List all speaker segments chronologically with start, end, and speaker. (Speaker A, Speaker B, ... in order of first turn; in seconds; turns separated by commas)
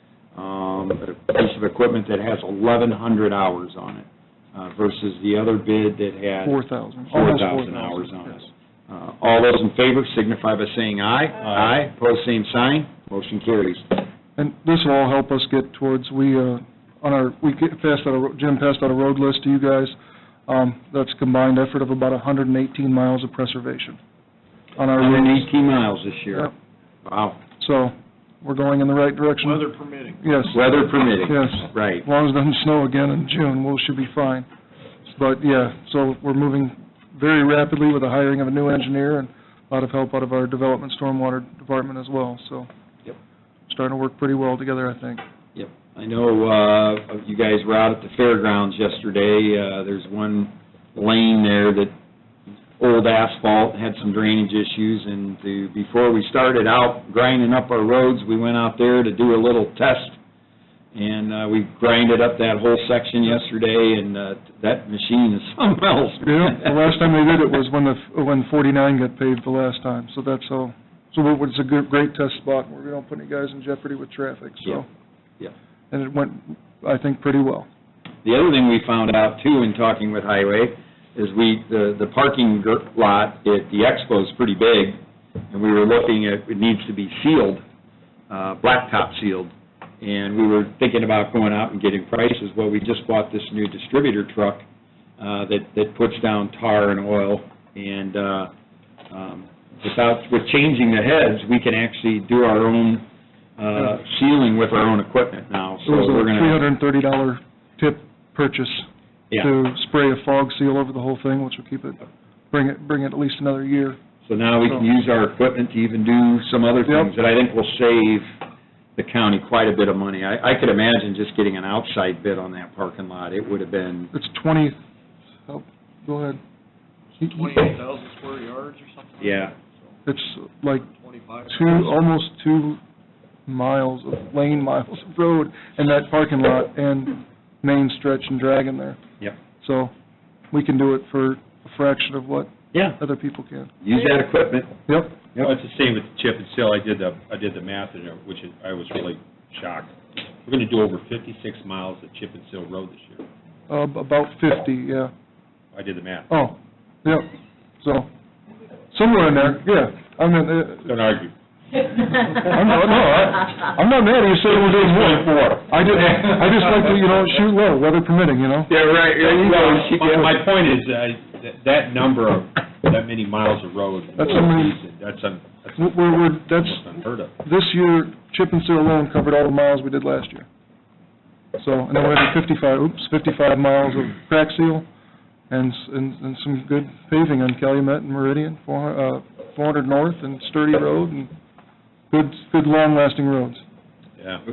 Speaker A: 0.4-6.6, Speaker B: 6.4-8.5, Speaker A: 7.1-14.1, Speaker C: 11.5-11.7, Speaker B: 14.4-20.0, Speaker B: 20.5-24.0, Speaker B: 24.8-25.5, Speaker A: 24.9-26.5, Speaker A: 27.1-27.4, Speaker B: 27.6-29.6, Speaker D: 29.4-30.4, Speaker B: 30.2-30.7, Speaker A: 30.5-32.1, Speaker B: 31.3-34.5, Speaker B: 35.1-42.7, Speaker B: 43.7-45.2, Speaker A: 45.5-51.9, Speaker A: 52.8-60.2, Speaker A: 61.0-67.0, Speaker B: 66.2-74.8, Speaker B: 75.9-77.7, Speaker A: 78.2-85.0, Speaker A: 85.5-87.6, Speaker A: 88.3-94.6, Speaker A: 95.2-98.5, Speaker A: 99.1-103.0, Speaker A: 103.6-106.6, Speaker B: 105.8-108.9, Speaker B: 109.4-114.0, Speaker A: 114.2-118.3, Speaker A: 119.0-124.1, Speaker B: 124.1-124.8, Speaker B: 125.5-126.4, Speaker D: 127.2-129.5, Speaker A: 129.2-129.5, Speaker B: 130.1-130.9, Speaker D: 131.0-132.0, Speaker B: 131.5-132.8, Speaker B: 133.5-139.0, Speaker B: 139.6-139.9, Speaker B: 140.5-143.7, Speaker A: 142.7-143.0, Speaker A: 143.8-144.8, Speaker B: 144.9-145.3, Speaker C: 145.4-153.2, Speaker B: 153.7-155.1, Speaker C: 155.7-156.3, Speaker B: 156.3-157.3, Speaker B: 157.8-158.1, Speaker B: 158.9-160.9, Speaker C: 160.9-161.3, Speaker B: 162.3-168.7, Speaker C: 164.6-165.3, Speaker C: 166.0-166.3, Speaker A: 168.7-170.3, Speaker C: 169.2-177.4, Speaker B: 174.2-174.8, Speaker B: 175.8-176.8, Speaker B: 177.4-180.5, Speaker B: 181.6-184.9, Speaker B: 185.5-191.3, Speaker B: 192.1-193.6